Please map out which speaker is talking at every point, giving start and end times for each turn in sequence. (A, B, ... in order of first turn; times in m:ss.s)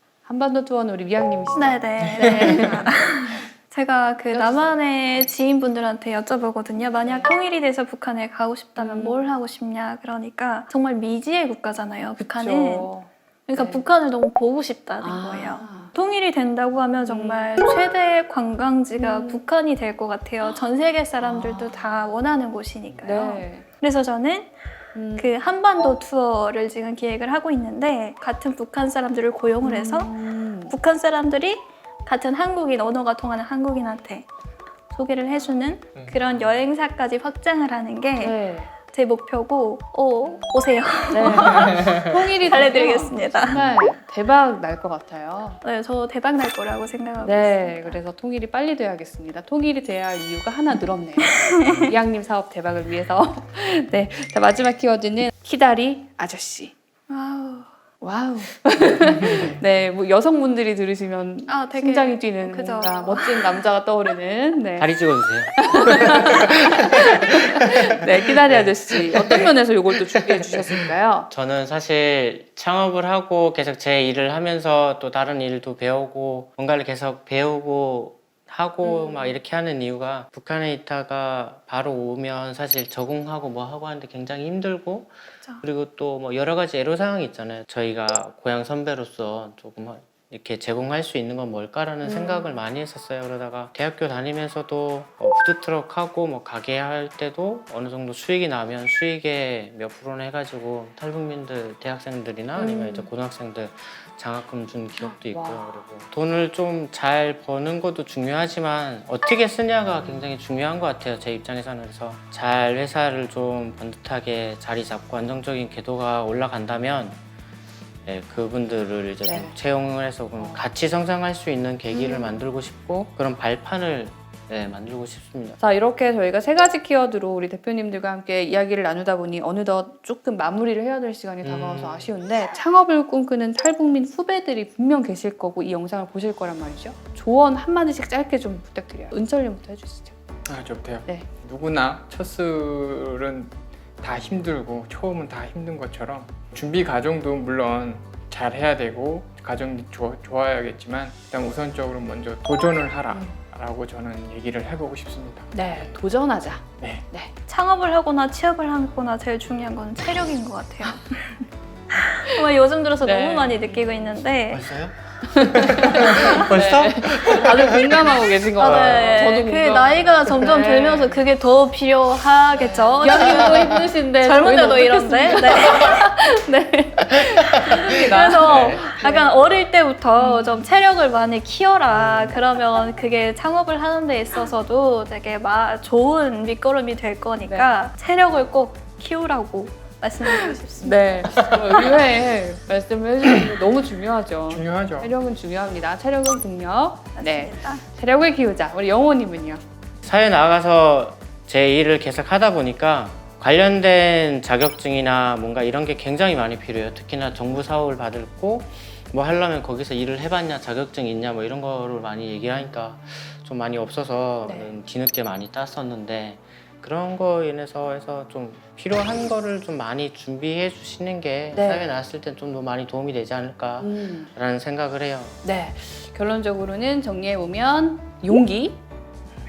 0:00.3-0:02.9 A
0:01.6-0:12.9 B
0:02.0-0:02.7 C
0:04.3-0:05.3 A
0:07.0-0:07.3 A
0:08.8-0:09.2 A
0:12.2-0:13.8 A
0:13.5-0:24.5 B
0:15.0-0:15.9 A
0:17.1-0:17.5 A
0:19.0-0:19.4 A
0:21.2-0:22.0 A
0:23.0-0:23.6 A
0:25.0-0:25.3 A
0:25.2-0:30.2 B
0:29.6-0:30.8 A
0:30.7-0:34.3 B
0:34.9-0:43.6 B
0:36.0-0:36.6 C
0:38.2-0:38.7 A
0:41.1-0:45.6 A
0:41.4-0:42.1 C
0:43.5-0:43.8 C
0:45.6-0:48.0 B
0:47.2-0:56.7 A
0:51.3-0:51.9 B
0:57.1-0:57.7 B
0:58.0-1:04.9 A
0:59.2-0:59.6 C
1:01.5-1:03.6 B
1:04.8-1:07.4 D
1:05.6-1:11.3 A
1:08.5-1:09.5 D
1:11.3-1:57.2 D
1:18.8-1:19.3 A
1:32.0-1:32.6 A
1:42.6-1:43.1 A
1:45.0-1:45.8 A
1:58.1-2:05.6 D
1:59.3-1:59.6 A
2:00.4-2:00.7 A
2:01.9-2:02.4 A
2:05.6-2:20.2 A
2:11.4-2:12.1 C
2:20.5-2:35.9 C
2:33.1-2:33.4 A
2:35.5-2:37.3 A
2:37.5-2:44.7 B
2:42.0-2:42.4 A
2:43.0-2:44.2 A
2:44.5-2:48.1 D
2:45.2-2:51.2 A
2:46.0-2:46.5 B
2:48.6-2:56.2 B
2:48.6-2:49.0 D
2:52.6-2:59.4 A
2:57.1-2:57.6 D
2:57.6-3:11.0 B
2:58.4-2:58.8 D
3:00.2-3:00.6 A
3:10.3-3:19.6 A
3:14.5-3:15.1 C
3:17.2-3:17.8 B
3:20.0-3:45.4 D
3:34.4-3:34.8 A
3:41.5-3:41.9 A
3:43.8-3:44.3 A
3:45.4-3:48.8 A